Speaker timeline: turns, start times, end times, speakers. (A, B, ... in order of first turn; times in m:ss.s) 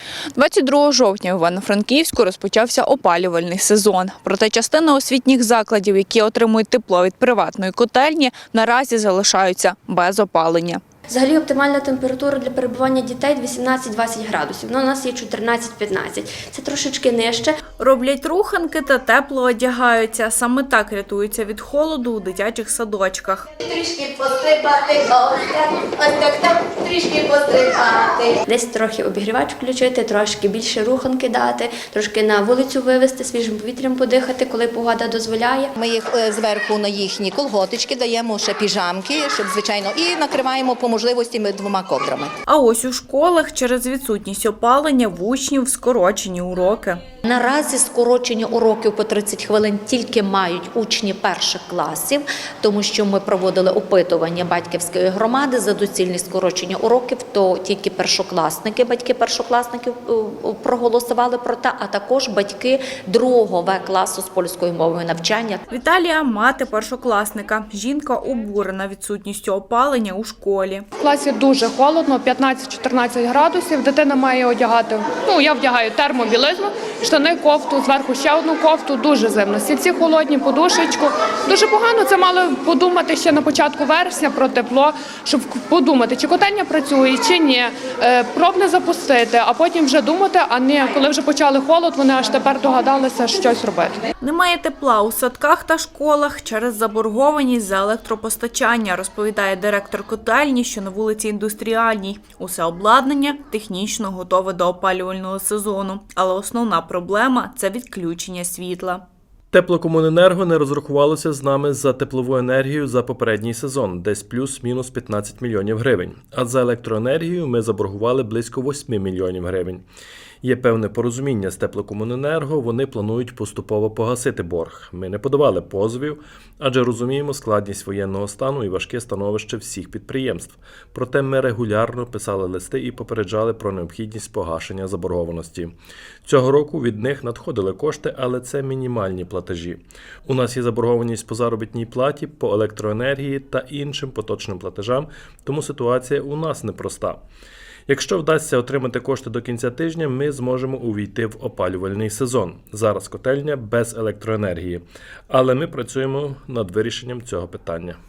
0:00.4-0:10.8 A
0:11.1-0:17.6 B
0:17.8-0:23.5 A
0:23.6-0:28.4 C
0:28.5-0:35.7 B
0:35.8-0:42.3 C
0:42.5-0:47.0 A
0:47.2-1:05.6 D
1:05.7-1:10.8 A
1:11.0-1:34.0 E
1:34.2-1:49.0 A
1:49.5-1:59.8 F
2:00.4-2:15.7 F
2:16.2-2:27.2 F
2:27.9-2:38.0 F